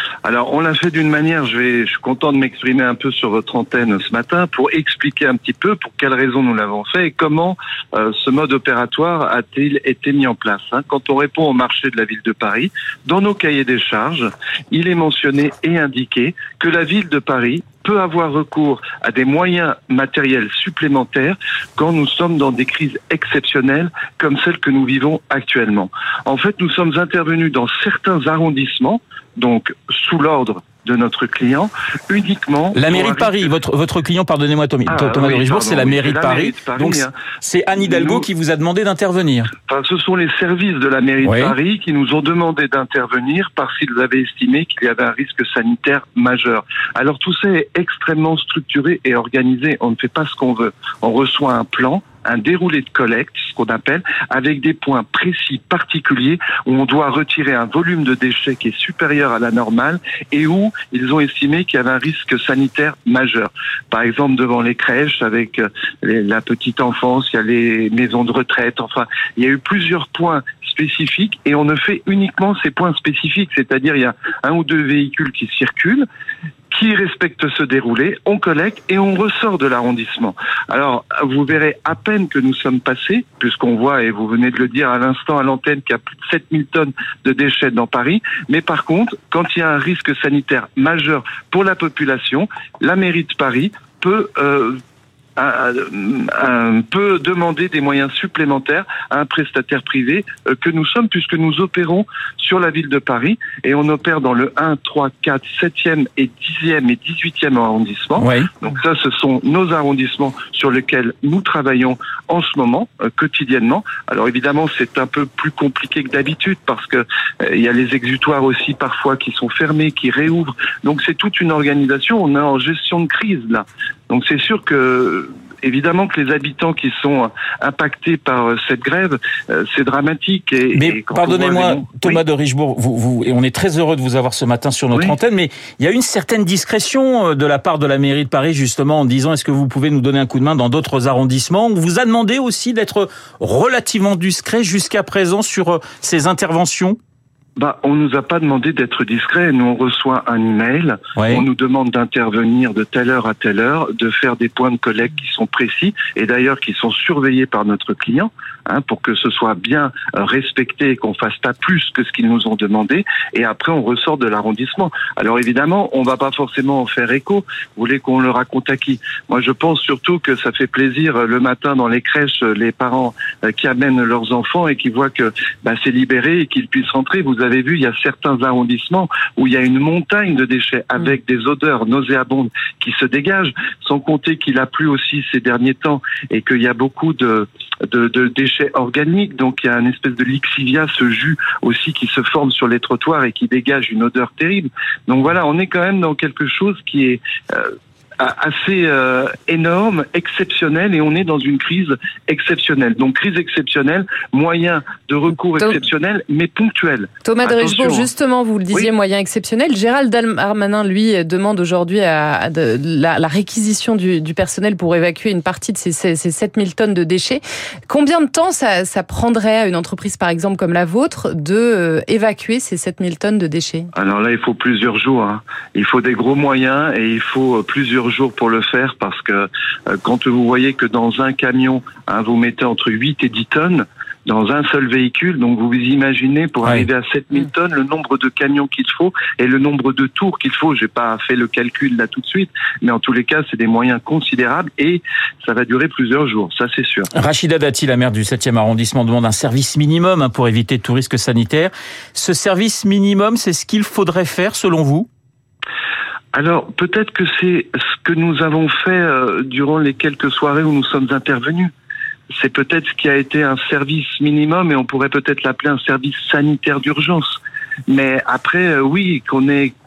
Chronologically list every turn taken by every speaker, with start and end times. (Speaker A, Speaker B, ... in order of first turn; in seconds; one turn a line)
Speaker A: 0.2-33.5
Speaker B: 32.7-39.5
Speaker A: 34.9-37.1
Speaker A: 37.8-38.3
Speaker A: 39.7-76.0
Speaker B: 41.2-41.5
Speaker A: 76.7-94.8
Speaker A: 95.4-132.2
Speaker B: 108.2-108.5
Speaker B: 130.7-147.0
Speaker A: 147.6-208.1
Speaker B: 151.2-151.4
Speaker C: 207.2-223.9
Speaker A: 223.9-247.1
Speaker B: 247.1-255.1
Speaker A: 256.3-261.7
Speaker A: 262.4-269.7